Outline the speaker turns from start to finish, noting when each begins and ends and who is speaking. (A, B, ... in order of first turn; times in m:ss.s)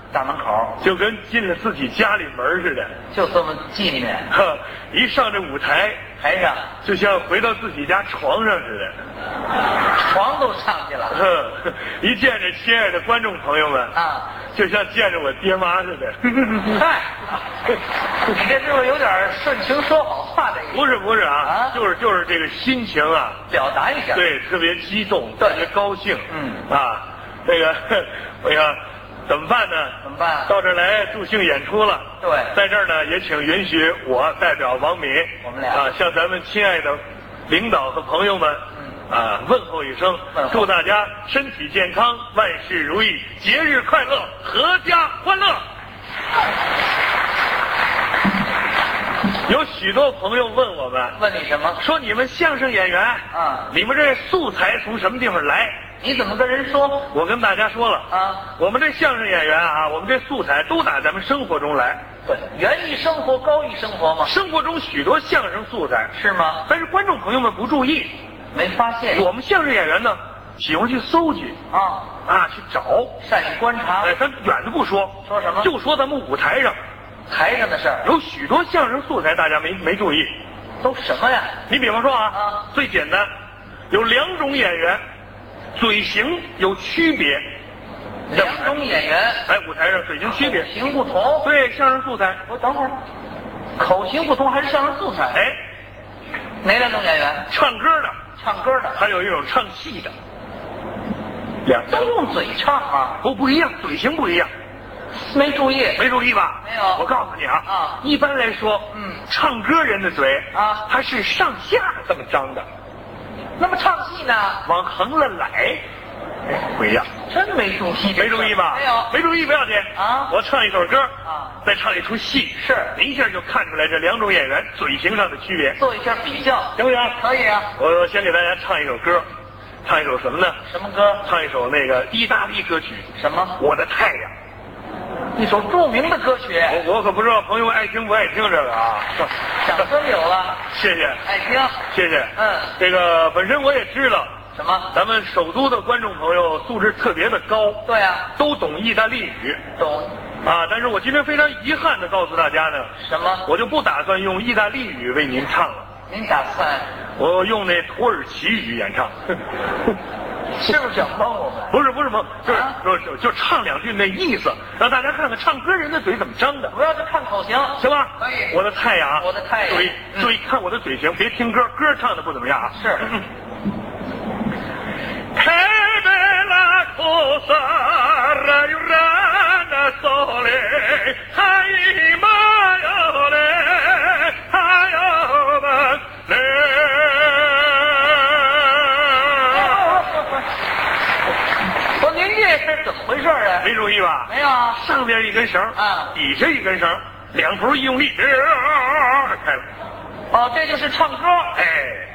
0:00.1-0:00.8 A
0:00.8-0:02.9 B
0:03.1-0:04.3 A
0:04.3-0:06.0 B
0:06.2-0:06.7 A
0:06.8-0:09.0 B
0:10.0-0:11.2 A
0:11.1-0:14.0 B
0:13.9-0:14.3 A
0:14.5-0:16.4 B
0:16.4-0:17.1 A
0:18.2-0:20.9 A
0:20.7-0:23.4 B
0:21.4-0:21.8 A
0:23.5-0:24.3 A
0:24.1-0:30.0 B
0:26.3-0:26.6 A
0:30.0-0:30.5 A
0:30.5-0:45.6 B
0:32.2-0:32.6 A
0:35.4-0:35.8 A
0:40.3-0:40.7 A
0:49.5-0:51.2 B
0:51.2-0:51.8 A
0:51.8-0:55.8 B
0:53.3-0:53.7 A
0:56.0-0:57.1 A
0:57.1-1:02.0 B
0:58.1-0:58.4 A
1:02.3-1:04.3 A
1:04.2-1:06.1 B
1:06.1-1:06.7 A
1:06.7-1:08.2 B
1:08.5-1:09.2 A
1:09.1-1:11.6 B
1:11.7-1:12.1 A
1:12.3-1:13.2 B
1:13.2-1:14.1 A
1:14.0-1:16.8 B
1:15.2-1:15.7 A
1:17.3-1:18.1 A
1:18.0-1:20.4 B
1:20.8-1:21.6 A
1:21.7-1:23.3 B
1:22.3-1:22.6 A
1:23.9-1:25.0 B
1:25.8-1:27.5 B
1:28.3-1:29.4 A
1:28.3-1:28.8 B
1:29.5-1:30.7 B
1:30.2-1:31.5 A
1:31.4-1:32.4 B
1:32.5-1:33.0 A
1:33.8-1:35.4 A
1:36.6-1:37.5 A
1:37.5-1:38.2 B
1:38.4-1:39.0 A
1:39.0-1:40.1 B
1:41.6-1:42.1 B
1:41.9-1:43.2 A
1:43.2-1:44.5 B
1:45.1-1:46.0 A
1:46.0-1:52.7 B
1:46.6-1:47.0 A
1:47.6-1:48.0 A
1:48.9-1:49.2 A
1:50.5-1:50.8 A
1:53.6-1:54.6 A
1:54.6-1:55.8 B
1:56.5-1:57.1 B
1:57.3-1:59.1 A
1:58.2-2:05.8 B
2:00.0-2:00.4 A
2:01.2-2:01.6 A
2:02.6-2:03.0 A
2:05.8-2:07.7 A
2:06.8-2:07.2 B
2:07.8-2:09.3 B
2:09.8-2:10.6 B
2:10.7-2:11.3 A
2:11.2-2:13.1 B
2:13.2-2:13.6 A
2:13.6-2:14.3 B
2:15.4-2:16.8 A
2:16.7-2:19.3 B
2:19.6-2:20.6 A
2:20.7-2:21.2 B
2:21.3-2:21.8 A
2:21.9-2:24.3 B
2:22.4-2:22.7 A
2:24.5-2:24.9 A
2:24.9-2:29.6 B
2:27.8-2:28.3 A
2:29.8-2:30.1 A
2:30.4-2:32.9 B
2:33.0-2:33.5 A
2:33.5-2:35.9 B
2:36.1-2:36.9 A
2:37.2-2:39.4 B
2:40.6-2:41.8 A
2:41.7-2:46.7 B
2:46.7-2:48.5 A
2:47.8-2:53.2 B
2:49.2-2:50.3 A
2:52.8-2:53.2 A
2:55.4-3:10.0 B
3:09.5-3:10.3 A
3:12.0-3:13.7 A
3:13.6-3:19.6 B
3:14.3-3:14.8 A
3:15.8-3:16.1 A
3:20.3-3:21.6 A
3:21.5-3:22.1 B